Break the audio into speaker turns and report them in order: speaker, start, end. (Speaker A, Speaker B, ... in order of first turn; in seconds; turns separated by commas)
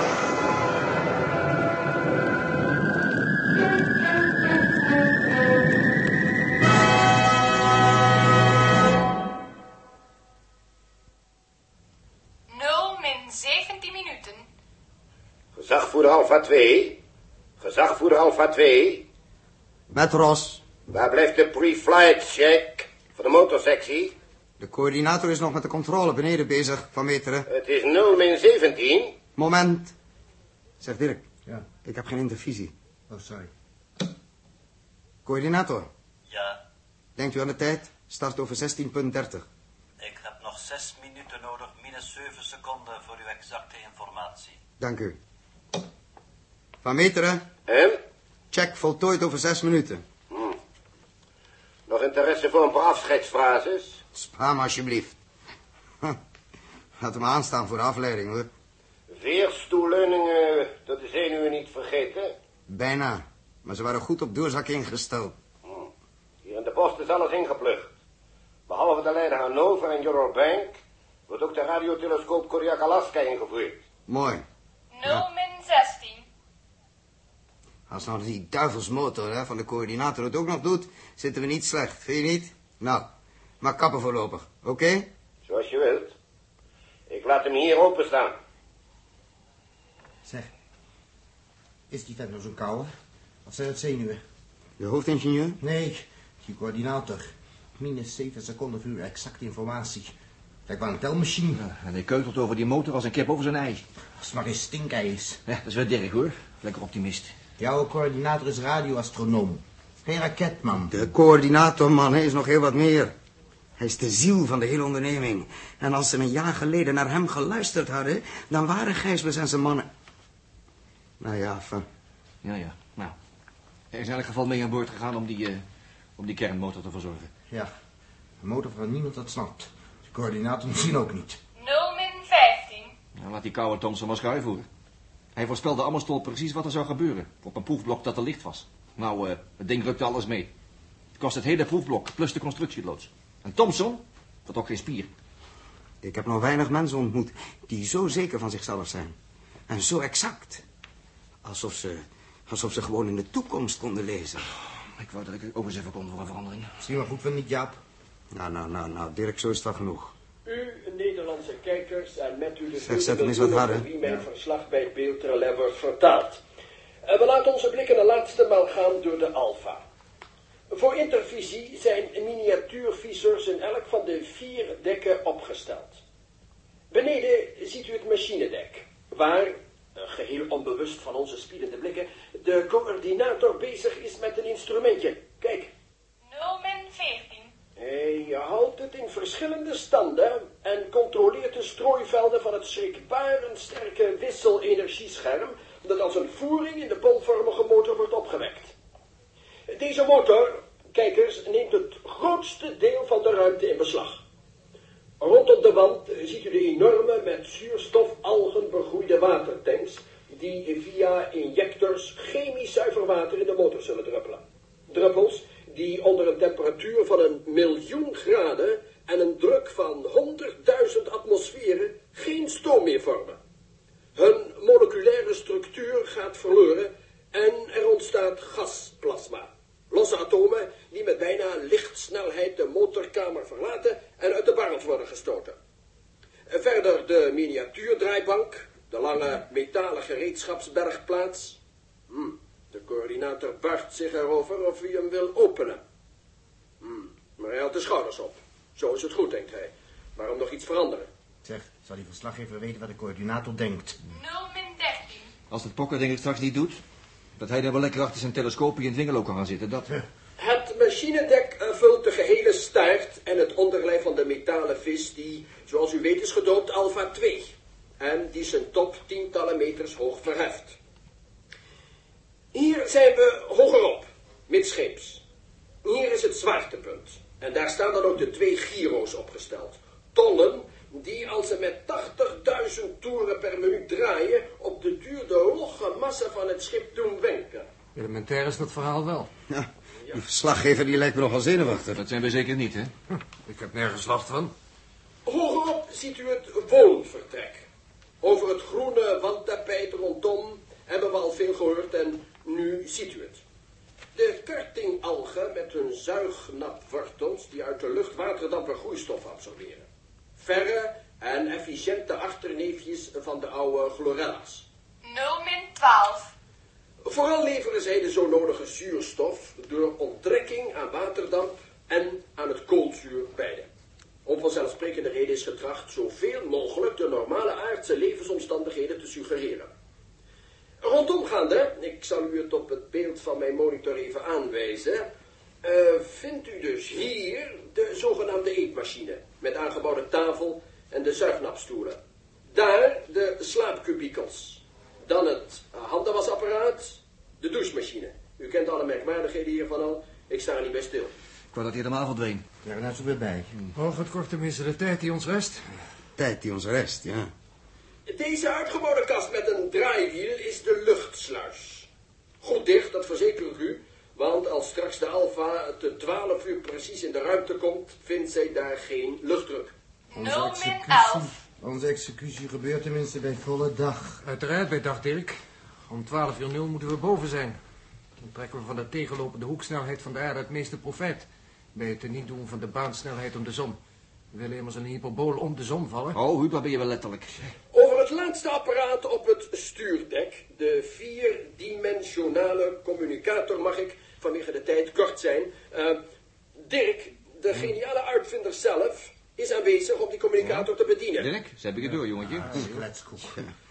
Speaker A: 12.5-14.5, Speaker B: 15.5-17.0, Speaker B: 17.6-19.1, Speaker C: 19.9-20.6, Speaker B: 20.9-24.1, Speaker C: 24.6-27.5, Speaker B: 27.5-29.2, Speaker C: 29.4-29.9, Speaker C: 30.8-31.2, Speaker C: 31.8-32.7, Speaker D: 33.1-33.5, Speaker C: 35.2-35.9, Speaker E: 36.3-36.6, Speaker C: 37.2-39.5, Speaker E: 40.0-44.6, Speaker C: 44.8-45.2, Speaker C: 46.8-47.5, Speaker B: 47.7-48.0, Speaker C: 48.5-50.0, Speaker B: 50.3-50.5, Speaker B: 51.9-54.0, Speaker C: 54.1-55.2, Speaker C: 57.0-58.5, Speaker B: 59.1-62.3, Speaker C: 62.7-65.3, Speaker B: 66.4-67.9, Speaker B: 68.7-73.8, Speaker C: 74.1-74.4, Speaker A: 74.9-76.2, Speaker C: 77.9-83.1, Speaker C: 83.6-85.1, Speaker B: 85.5-86.1, Speaker B: 87.1-88.3, Speaker D: 91.9-92.9, Speaker D: 93.5-94.2, Speaker C: 94.8-95.6, Speaker D: 95.6-97.3, Speaker D: 97.8-100.1, Speaker D: 100.7-101.6, Speaker F: 101.5-103.8, Speaker D: 104.2-105.4, Speaker F: 105.5-107.3, Speaker D: 107.6-111.0, Speaker C: 110.9-113.1, Speaker C: 113.8-119.9, Speaker C: 121.2-121.8, Speaker F: 122.4-123.2, Speaker F: 123.9-125.6, Speaker F: 126.2-127.3, Speaker D: 128.4-131.4, Speaker A: 131.6-132.9, Speaker F: 133.2-134.7, Speaker F: 135.3-140.5, Speaker F: 141.2-145.1, Speaker C: 146.0-149.1, Speaker C: 149.7-150.6, Speaker C: 151.4-154.5, Speaker F: 154.9-156.8, Speaker D: 156.8-157.8, Speaker C: 158.3-160.1, Speaker G: 160.4-166.4, Speaker C: 162.8-163.9, Speaker G: 167.0-169.8, Speaker G: 170.7-176.0, Speaker G: 176.9-185.7, Speaker A: 186.2-187.5, Speaker G: 187.8-198.7, Speaker G: 199.7-204.2, Speaker G: 205.2-223.4, Speaker G: 224.1-235.6, Speaker G: 236.5-241.6, Speaker G: 242.1-245.8, Speaker G: 246.8-251.1, Speaker D: 251.4-254.0, Speaker A: 254.1-255.3, Speaker F: 255.5-256.8, Speaker F: 257.4-259.9, Speaker G: 260.4-270.8, Speaker G: 272.5-275.2, Speaker G: 275.8-287.7, Speaker H: 287.9-289.3, Speaker C: 289.5-292.0, Speaker F: 291.9-292.9, Speaker H: 293.4-294.5, Speaker G: 295.2-297.6, Speaker G: 298.2-303.4, Speaker G: 304.1-309.8, Speaker G: 310.4-314.7, Speaker A: 315.0-316.3, Speaker G: 317.0-323.7, Speaker G: 324.2-329.7, Speaker G: 330.8-335.1, Speaker G: 335.6-342.0, Speaker G: 342.5-351.1, Speaker F: 351.5-352.4, Speaker D: 352.6-353.5, Speaker H: 353.7-355.6, Speaker C: 356.2-357.3, Speaker G: 358.1-361.9, Speaker G: 362.4-369.7, Speaker A: 370.1-371.3, Speaker D: 370.1-374.2, Speaker H: 374.2-375.4, Speaker H: 375.9-377.6, Speaker H: 378.2-383.8, Speaker H: 384.3-386.2, Speaker F: 386.1-387.5, Speaker G: 387.7-396.0, Speaker G: 396.6-401.3, Speaker F: 400.4-402.5, Speaker D: 401.9-403.5